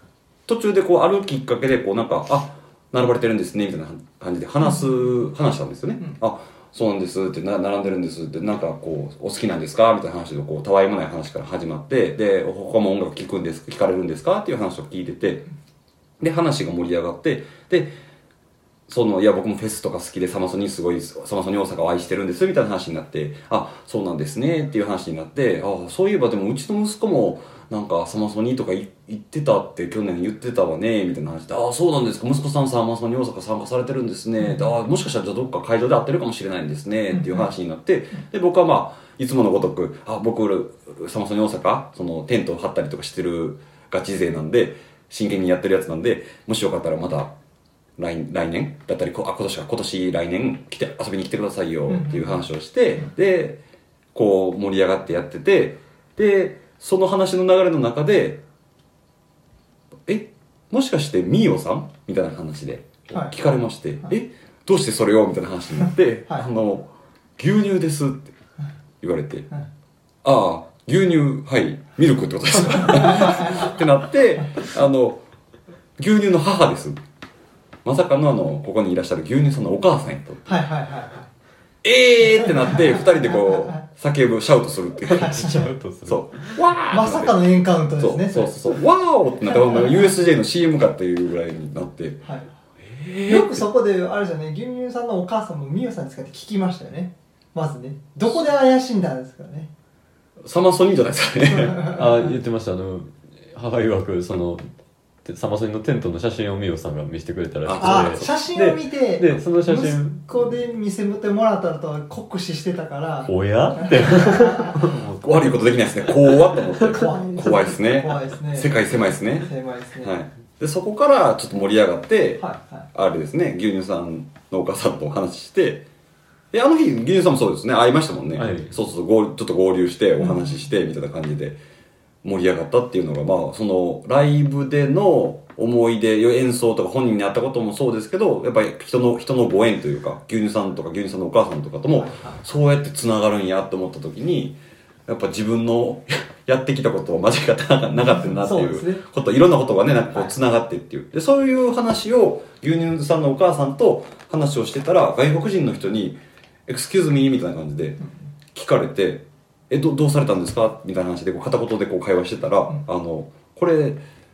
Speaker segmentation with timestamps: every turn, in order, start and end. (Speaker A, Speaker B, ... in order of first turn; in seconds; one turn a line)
Speaker A: 0.5-15.4
Speaker B: 4.6-5.1
Speaker A: 16.2-18.0
Speaker A: 18.9-47.3
Speaker B: 37.1-37.5
Speaker A: 48.0-53.6
Speaker B: 51.9-52.4
Speaker A: 54.1-58.4
Speaker A: 60.0-68.3
Speaker B: 63.1-63.3
Speaker A: 69.0-69.5
Speaker A: 70.2-75.2
Speaker B: 72.7-73.7
Speaker A: 76.0-77.0
Speaker A: 77.8-80.6
Speaker B: 80.5-81.3
Speaker A: 81.8-92.2
Speaker B: 82.2-83.8
Speaker C: 85.1-86.6
Speaker B: 85.1-85.7
Speaker B: 86.9-88.5
Speaker B: 89.4-90.1
Speaker A: 92.9-93.6
Speaker B: 93.2-99.7
Speaker A: 100.4-101.8
Speaker B: 101.5-102.3
Speaker C: 101.9-104.7
Speaker C: 105.2-110.4
Speaker A: 107.6-108.4
Speaker B: 107.8-114.9
Speaker C: 113.3-115.2
Speaker A: 115.1-119.5
Speaker B: 116.9-120.1
Speaker A: 120.0-125.9
Speaker B: 122.4-122.9
Speaker A: 126.5-131.6
Speaker C: 128.4-128.8
Speaker B: 130.2-130.5
Speaker A: 132.2-158.0
Speaker B: 141.9-142.4
Speaker B: 148.1-149.0
Speaker A: 158.5-164.0